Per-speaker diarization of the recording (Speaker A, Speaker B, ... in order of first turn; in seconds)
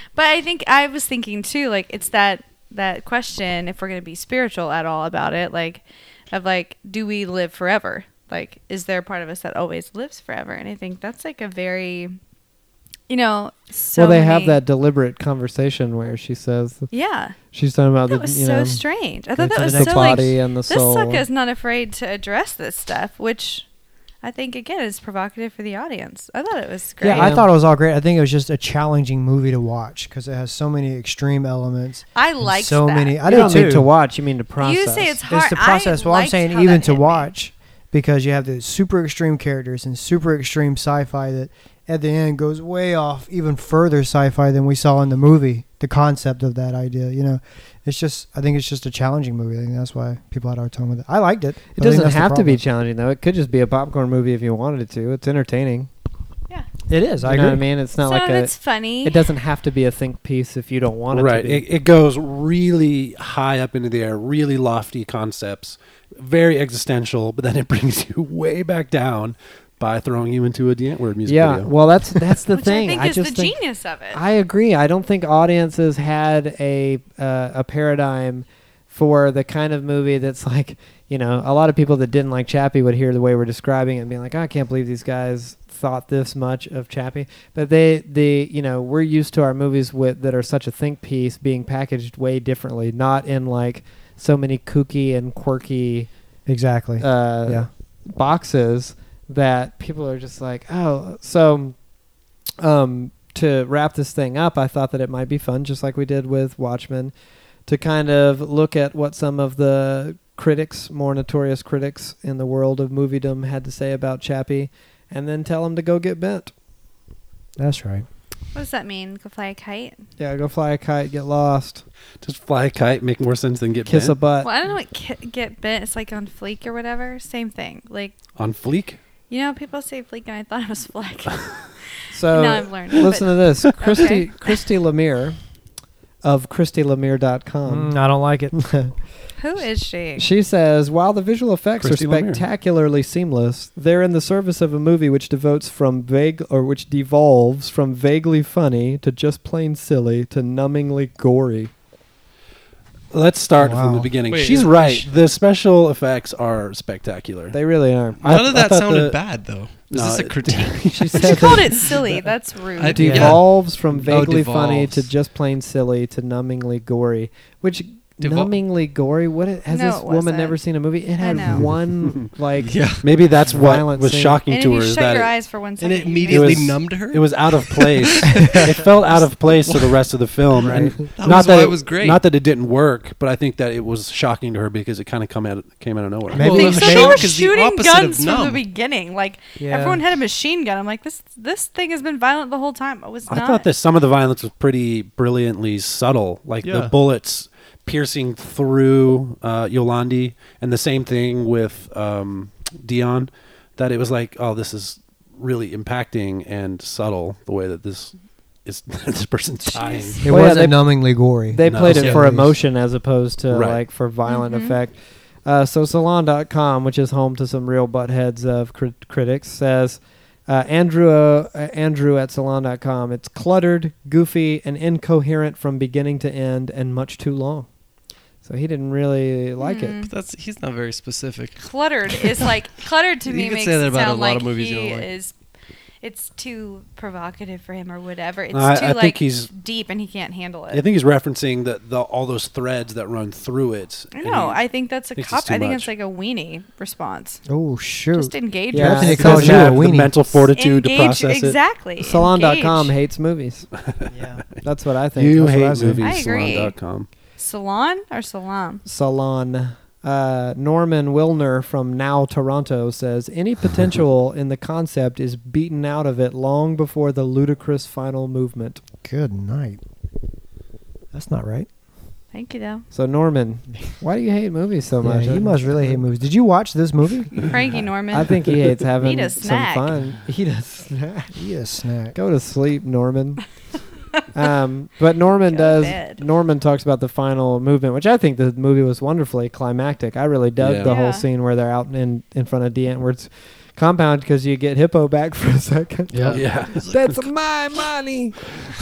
Speaker A: 0.1-12.2, 13.1-14.6, 16.9-17.4, 18.1-23.7, 24.2-27.4, 32.1-33.7, 34.6-37.3, 58.0-59.2, 72.5-74.2, 118.5-120.0, 124.4-128.1, 129.3-134.6, 139.4-140.3, 161.2-163.1, 169.7-170.6, 171.2-171.7, 174.5-176.7, 186.4-193.7, 209.7-210.2, 214.3-214.8, 229.6-230.1, 231.6-235.3, 236.0-240.8, 244.1-247.4, 248.1-249.2, 250.5-252.9, 256.0-256.8, 257.4-258.8, 272.3-272.9, 277.4-278.5, 279.0-279.9, 285.3-286.2, 290.8-291.2
Speaker B: 13.9-16.9, 17.5-18.8, 19.4-21.2, 27.0-27.5, 33.2-35.2, 51.8-55.9, 56.9-61.6, 71.3-73.6, 74.1-96.1, 97.0-101.8, 102.6-107.1, 107.7-116.5, 120.2-121.8, 123.9-124.5, 132.1-135.4, 136.2-138.0, 138.5-138.9, 140.2-151.7, 157.5-158.2, 160.9-161.7, 162.9-174.4, 210.2-227.7, 228.4-230.0, 248.7-250.1, 252.0-253.7, 254.6-256.0, 258.9-268.8, 272.9-276.1, 278.1-281.4, 282.1-283.5, 284.3-298.4
Speaker C: 19.5-20.4, 27.0-33.9, 35.3-52.6, 56.9-57.7, 96.5-97.7, 117.6-118.0, 137.7-138.8, 153.6-154.1, 163.0-163.4, 180.7-181.0, 186.3-187.2, 189.6-190.0, 210.2-212.6, 247.5-250.4, 254.1-254.4, 269.0-269.8, 271.1-271.7, 275.0-277.6, 281.3-282.1
Speaker D: 61.1-71.7, 122.2-124.2, 128.4-129.0, 141.8-142.4, 153.1-157.6, 158.2-159.2, 159.9-162.0, 171.4-172.3, 173.0-175.3, 176.3-187.2, 193.3-210.2, 211.6-212.4, 213.5-213.8, 238.5-239.5, 240.7-244.6, 245.2-245.9, 249.2-251.6, 253.8-254.1, 255.2-257.1, 290.6-290.9, 296.3-297.1
Speaker E: 154.3-155.1, 158.2-161.0, 162.8-165.1, 168.2-168.6, 172.6-173.1, 175.8-180.0, 180.6-182.2, 186.4-188.6, 196.6-196.9, 211.9-212.2, 230.0-231.6, 232.2-232.5, 233.2-235.1, 296.1-296.9